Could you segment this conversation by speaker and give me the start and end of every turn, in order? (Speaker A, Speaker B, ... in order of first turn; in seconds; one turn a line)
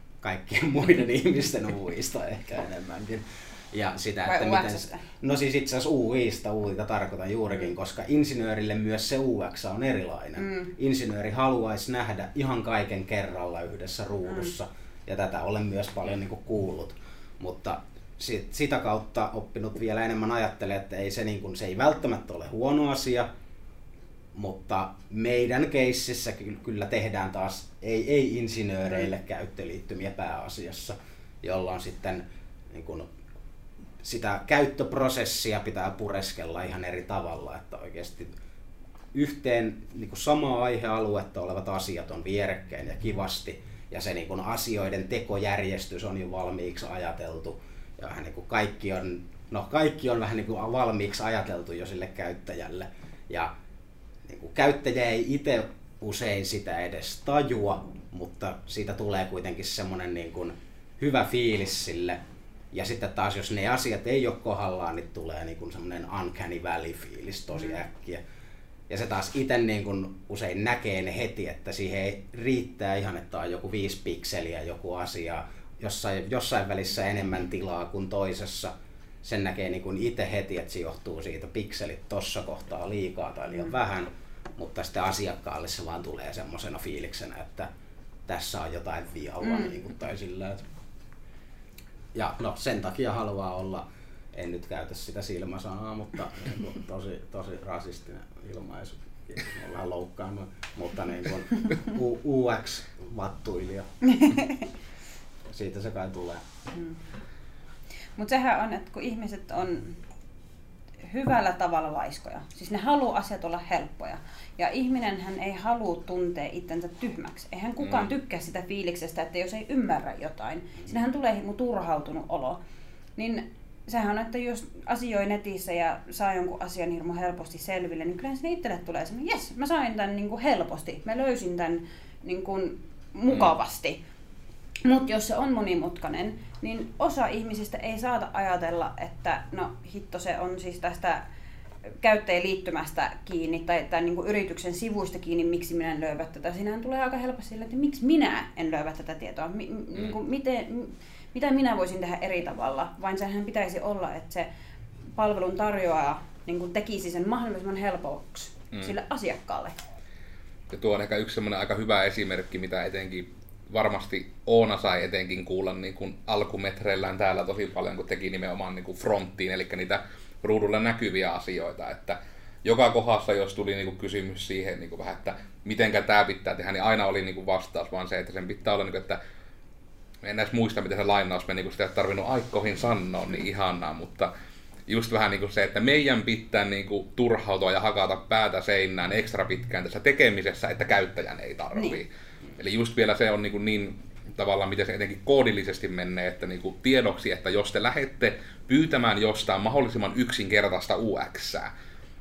Speaker A: 0.2-23.3
Speaker B: 4.3-5.0
Speaker B: 10.4-10.7
Speaker A: 24.4-33.1
Speaker A: 34.0-38.3
Speaker A: 39.1-53.5
Speaker A: 54.3-62.2
Speaker A: 62.7-68.2
Speaker A: 68.9-87.7
Speaker A: 88.3-90.7
Speaker A: 92.1-103.9
Speaker B: 104.2-104.5
Speaker A: 105.5-106.4
Speaker B: 108.2-110.0
Speaker B: 111.0-122.6
Speaker C: 117.8-118.1
Speaker B: 123.2-134.0
Speaker B: 134.8-141.2
Speaker B: 142.0-154.5
Speaker B: 155.1-159.8
Speaker C: 160.7-179.2
Speaker C: 180.2-184.3
Speaker C: 184.9-201.7